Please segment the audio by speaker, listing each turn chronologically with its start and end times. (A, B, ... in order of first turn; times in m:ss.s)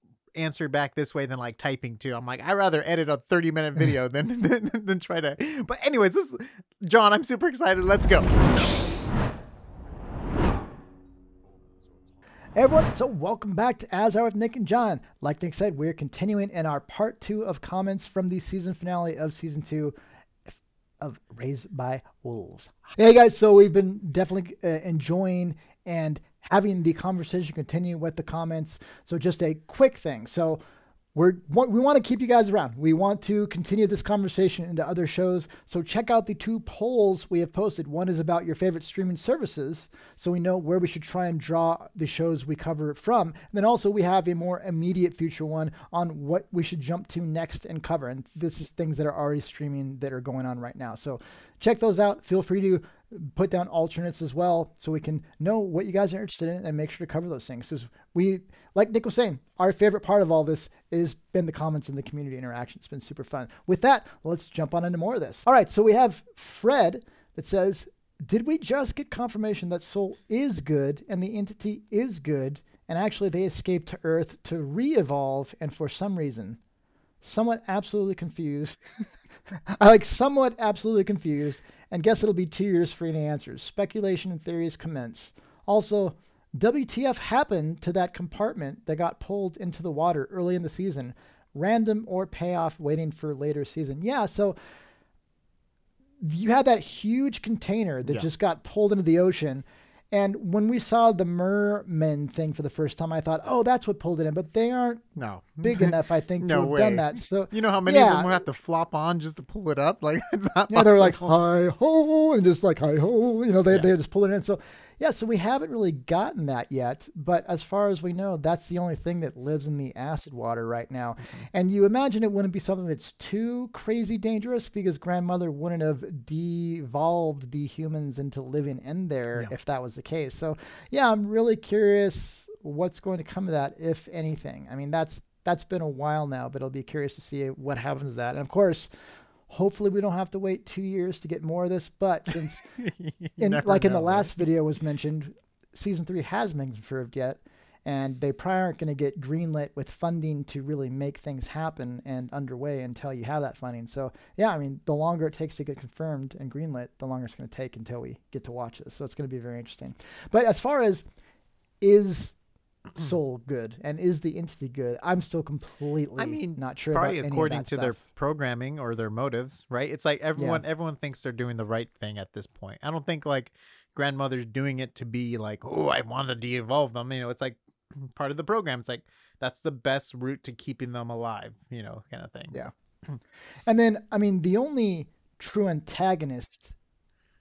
0:00.4-0:08.5 A
0:12.6-0:19.9 B
0:20.5-0:30.6 B
0:31.2-1:16.6 B
1:17.2-1:18.8 B
1:19.5-1:34.6 B
1:36.2-1:45.1 B
1:45.2-1:51.4 A
1:45.6-1:48.4 B
1:50.7-2:18.9 B
2:19.5-2:22.7 B
2:22.8-2:24.4 A
2:23.4-2:41.0 B
2:41.8-2:42.3 B
2:43.0-2:48.0 B
2:46.2-3:03.2 A
2:50.4-2:50.6 B
3:03.7-3:06.8 B